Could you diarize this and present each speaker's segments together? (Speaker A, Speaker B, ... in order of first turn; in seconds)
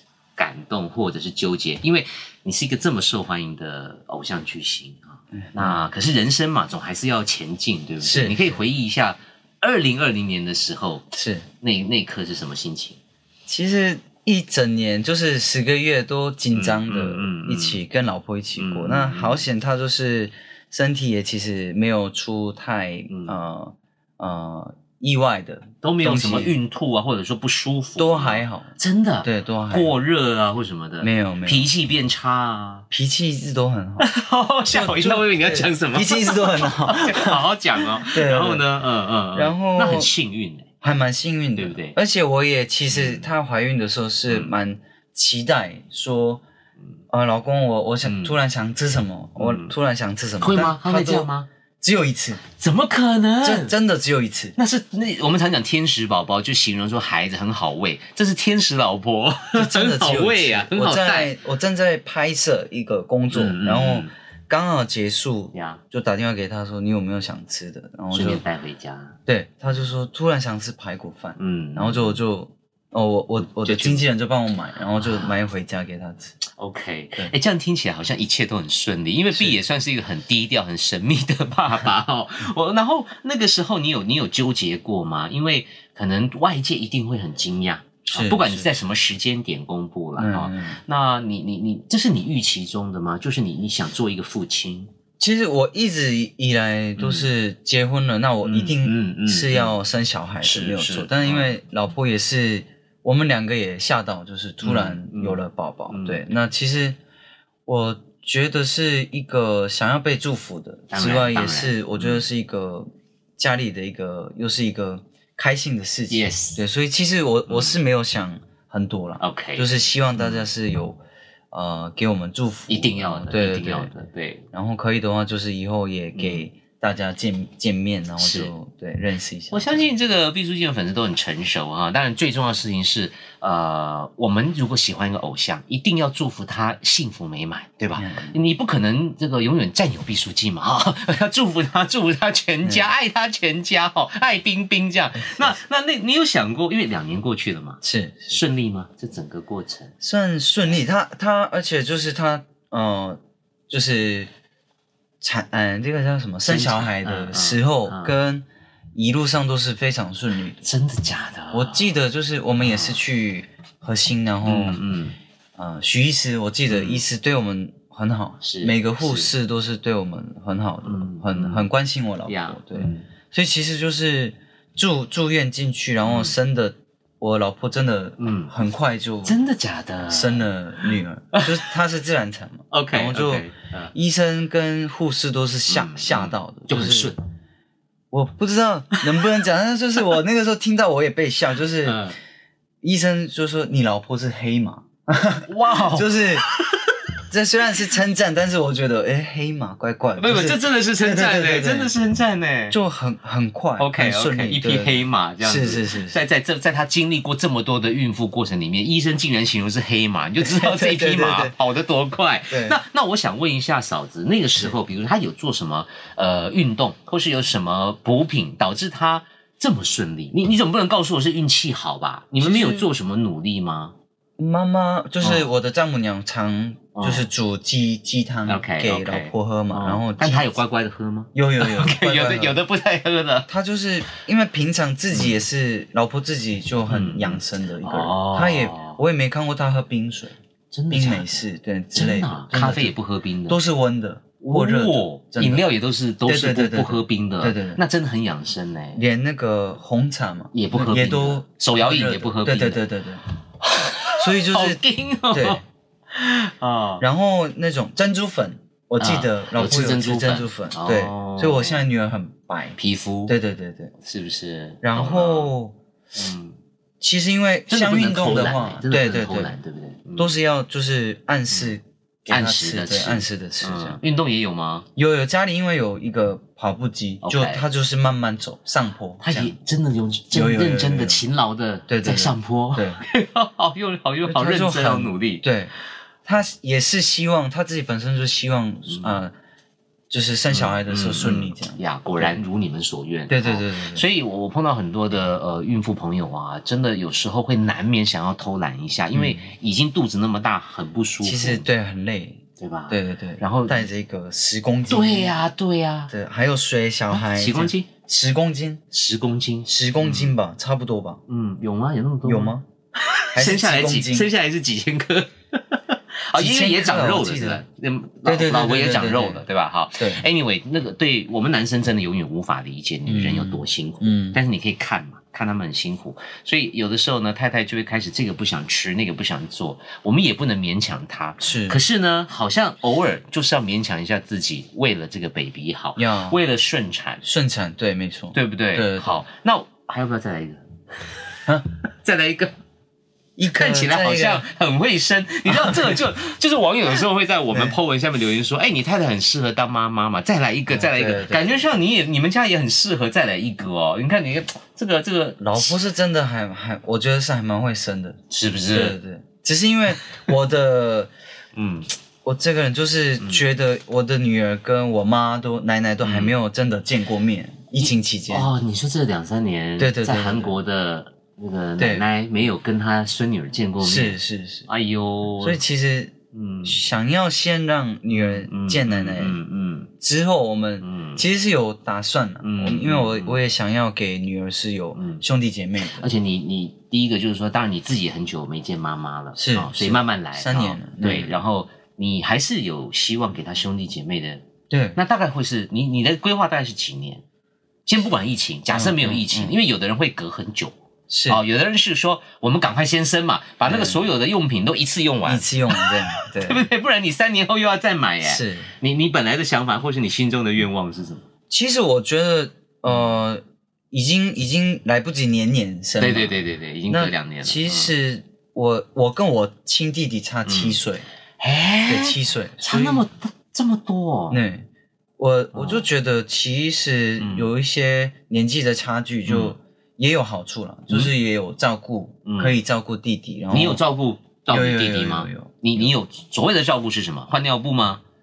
Speaker A: 0.4-11.1, 11.6-13.0, 16.5-17.8, 18.6-19.4, 23.1-23.4, 25.8-32.9, 34.0-40.7, 41.5-42.0, 42.9-43.2, 48.0-48.4, 49.4-49.7, 50.4-51.5, 52.5-53.7, 54.5-61.3, 63.3-64.1, 65.5-65.8, 68.1-69.2, 71.4-72.2, 73.4-74.1, 75.0-75.3, 76.4-94.9, 97.0-97.3, 98.4-99.8, 100.4-101.5, 104.6-106.2, 110.9-112.2, 116.1-116.6, 117.5-117.8, 119.2-120.5, 122.7-124.4, 126.1-126.4, 128.2-128.5, 129.5-149.9, 156.4-158.2, 160.6-161.9, 162.6-163.0, 164.4-165.2, 166.7-167.0, 168.4-169.3, 170.8-171.7, 172.3-173.1, 176.1-176.3, 178.2-178.6, 179.2-181.6, 182.7-183.9, 185.7-187.2, 191.8-192.2, 195.5-197.0, 200.2-202.8, 203.8-223.9, 225.2-225.5, 226.9-227.3, 228.5-233.5, 235.1-235.4, 236.9-239.0, 240.7-241.4, 241.9-243.6, 244.4-249.0, 250.5-252.9, 253.6-257.0, 259.0-261.9, 262.8-263.3, 264.0-265.5, 266.1-266.6, 267.7-270.3, 271.5-271.7, 272.3-274.9, 277.2-277.6, 279.2-285.4, 288.9-289.2, 290.5-301.6, 302.6-303.9, 304.9-306.1, 307.1-307.9, 308.9-310.4, 311.3-312.5, 313.1-337.2, 338.3-341.1, 342.0-342.5, 343.5-355.8, 358.3-359.0, 360.0-360.3, 361.5-361.9, 363.2-363.4, 366.0-366.3, 367.8-375.6, 376.3-376.8, 378.1-379.9, 380.8-381.2, 382.4-383.4, 384.9-385.2, 385.8-397.2, 397.9-400.7, 401.3-411.2, 416.0-417.9, 420.5-420.8, 421.4-424.4, 425.5-425.9, 427.2-427.5, 429.3-429.6, 430.9-431.1, 432.2-432.6, 433.5-438.0
Speaker B: 5.4-5.8, 8.0-8.4, 11.1-11.4, 13.4-26.5, 28.0-28.7, 29.2-29.9, 31.0-31.7, 32.9-34.1, 34.7-38.6, 39.3-40.1, 40.8-46.4, 47.1-51.3, 51.8-52.4, 53.4-54.5, 59.5-68.4, 69.3-76.3, 88.1-88.7, 90.2-90.8, 95.2-107.0, 107.7-112.9, 113.4-121.0, 121.5-123.9, 124.5-129.9, 137.9-138.3, 142.6-142.9, 145.2-145.5, 147.8-148.4, 150.0-154.3, 155.2-160.6, 161.5-164.8, 165.6-179.4, 180.1-187.1, 188.1-192.1, 192.8-196.4, 197.3-201.9, 202.7-206.2, 210.4-211.5, 212.5-212.8, 222.4-222.9, 224.4-230.5, 231.3-232.6, 233.5-240.3, 240.9-242.9, 243.5-245.6, 246.2-247.8, 248.9-253.2, 254.2-254.8, 255.3-255.6, 257.0-263.9, 264.8-265.7, 267.0-269.5, 270.2-274.0, 274.9-279.5, 280.3-281.2, 281.9-283.0, 284.2-285.7, 286.2-289.3, 290.1-292.4, 293.3-294.0, 299.1-299.5, 301.2-305.4, 306.1-308.8, 309.7-311.2, 312.2-312.6, 313.3-314.3, 316.3-317.6, 318.2-319.4, 320.0-320.2, 323.1-324.4, 331.4-331.8, 335.9-336.4, 337.2-339.2, 343.4-344.4, 345.4-345.9, 347.5-347.8, 350.7-351.6, 355.4-358.2, 358.7-361.1, 362.2-368.5, 369.8-370.6, 371.8-372.1, 373.8-374.7, 375.4-376.1, 376.6-379.4, 380.0-386.1, 389.3-391.4, 394.7-395.0, 398.7-399.6, 401.1-401.4, 403.6-404.0, 405.2-406.6, 408.2-408.7, 411.5-416.4, 416.9-421.1, 421.8-423.0, 424.3-424.6, 425.2-433.8, 434.5-435.9